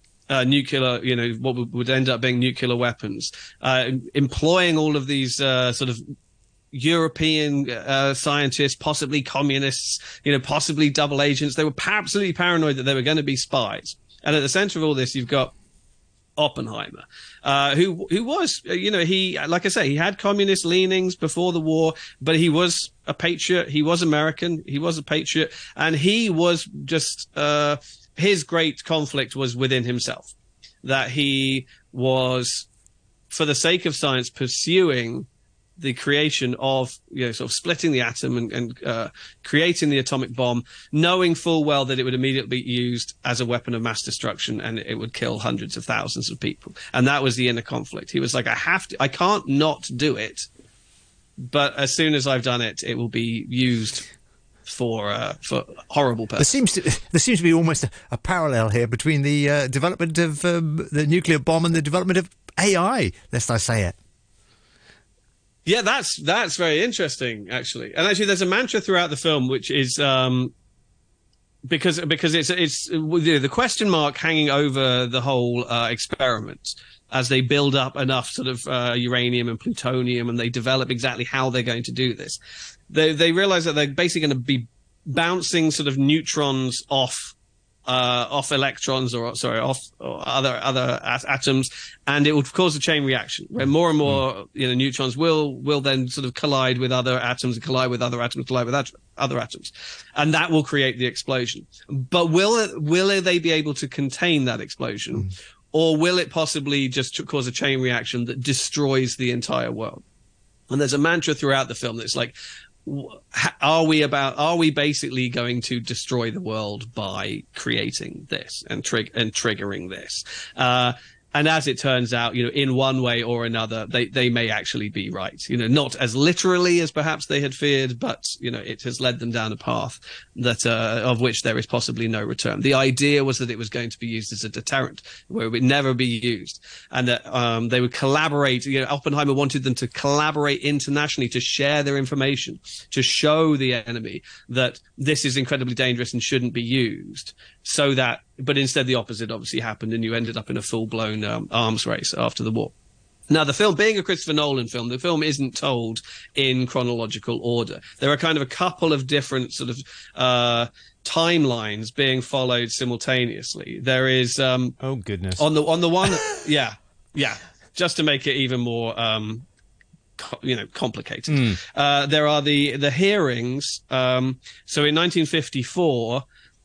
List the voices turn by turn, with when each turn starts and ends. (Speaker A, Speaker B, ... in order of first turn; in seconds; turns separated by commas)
Speaker A: 0.3-6.0, Speaker A: 6.7-15.5, Speaker A: 16.4-30.3, Speaker A: 30.8-32.7, Speaker A: 33.3-35.3, Speaker A: 35.8-50.5, Speaker A: 51.4-54.0, Speaker A: 54.6-56.5, Speaker B: 56.4-64.0, Speaker A: 65.7-70.5, Speaker A: 71.7-82.4, Speaker A: 82.9-87.3, Speaker A: 87.8-110.0, Speaker A: 110.7-152.7, Speaker A: 153.3-164.8, Speaker B: 164.8-165.4, Speaker A: 165.4-169.4, Speaker B: 166.1-166.4, Speaker A: 170.2-176.2, Speaker B: 171.3-171.6